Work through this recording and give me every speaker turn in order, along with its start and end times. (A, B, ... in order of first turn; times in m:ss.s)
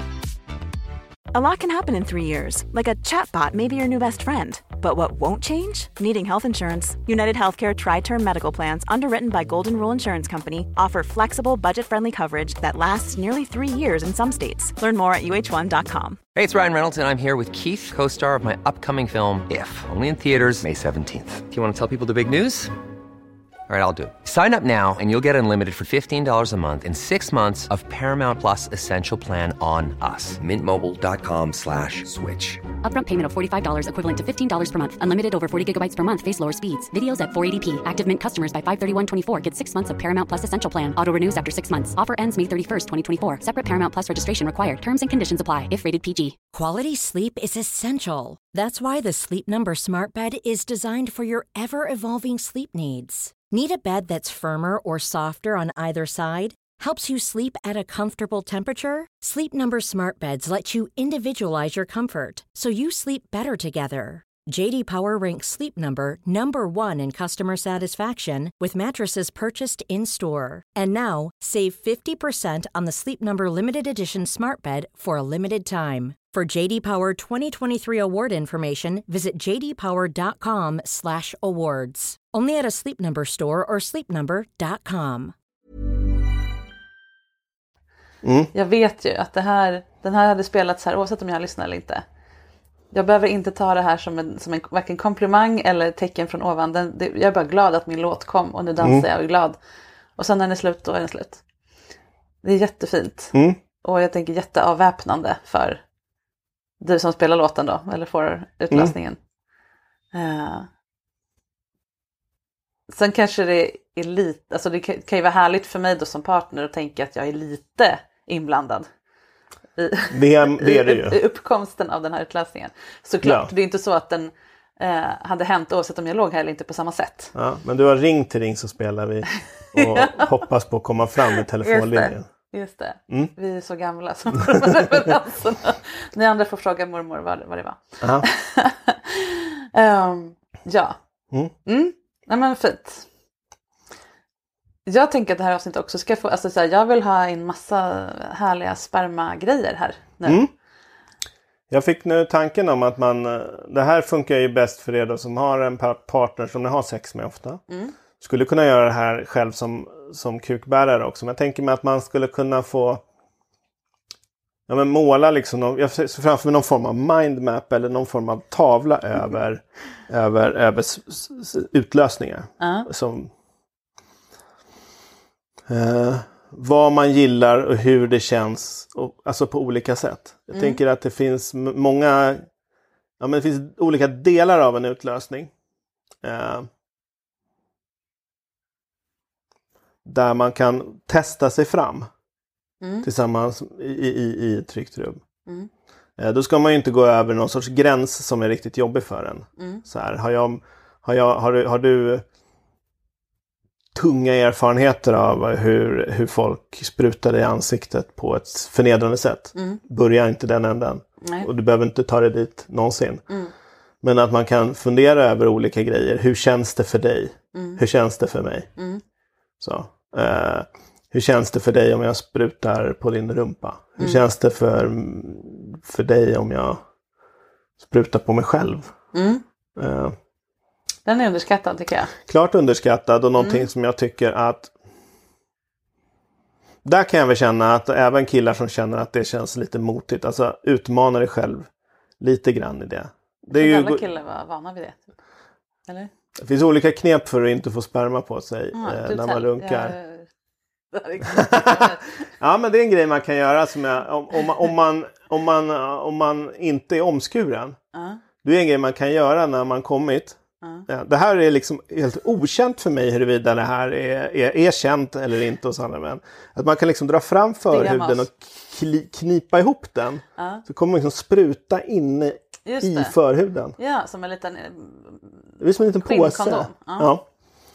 0:01.3-0:16.2 A
0:16.3-0:22.7 B
0:23.7-0:32.6 B
0:32.8-0:46.4 C
0:46.5-1:25.3 D
1:28.2-1:28.5 E
1:28.5-1:32.0 F
1:32.9-1:39.6 F
1:38.8-1:39.0 E
1:40.2-1:41.4 F
1:42.4-1:45.8 F
1:46.8-1:49.2 F
1:50.1-1:50.7 F
1:52.9-1:58.9 F
1:59.8-2:07.3 F
2:00.1-2:01.2 E
2:03.2-2:03.5 E
2:07.3-2:12.2 E
2:09.8-2:10.3 F
2:11.6-2:21.0 F
2:21.6-2:23.0 F
2:24.9-2:30.4 F
2:30.2-2:30.5 E
2:31.7-2:37.6 E
2:38.2-2:43.0 E
2:44.7-2:53.3 E
2:52.6-2:52.9 F
2:55.7-3:02.4 E
3:00.5-3:00.8 F
3:03.2-3:05.5 E
3:06.2-3:06.7 E
3:10.0-3:12.1 E
3:12.8-3:13.1 F
3:13.0-3:15.2 E
3:16.2-3:22.2 E
3:19.6-3:19.8 F
3:23.9-3:33.2 E
3:29.5-3:29.8 F
3:31.2-3:31.5 F
3:34.0-3:38.7 E
3:37.5-3:37.8 F
3:38.8-3:39.0 F
3:39.6-3:46.8 E
3:47.8-3:48.9 E
3:49.1-3:49.4 F
3:49.8-3:50.1 E
3:51.0-3:52.1 F
3:52.2-3:54.7 E
3:53.4-3:53.7 F
3:56.8-4:01.7 E
4:02.2-4:04.0 E
4:03.5-4:05.0 F
4:06.4-4:09.9 E
4:08.7-4:10.2 F
4:10.9-4:12.0 F
4:11.4-4:11.9 E
4:12.4-4:17.8 E
4:17.9-4:18.2 F
4:18.4-4:33.7 E
4:27.7-4:28.2 F
4:30.4-4:30.6 F
4:32.6-4:33.1 F
4:33.8-4:35.2 F
4:35.6-4:37.2 E
4:36.0-4:37.1 F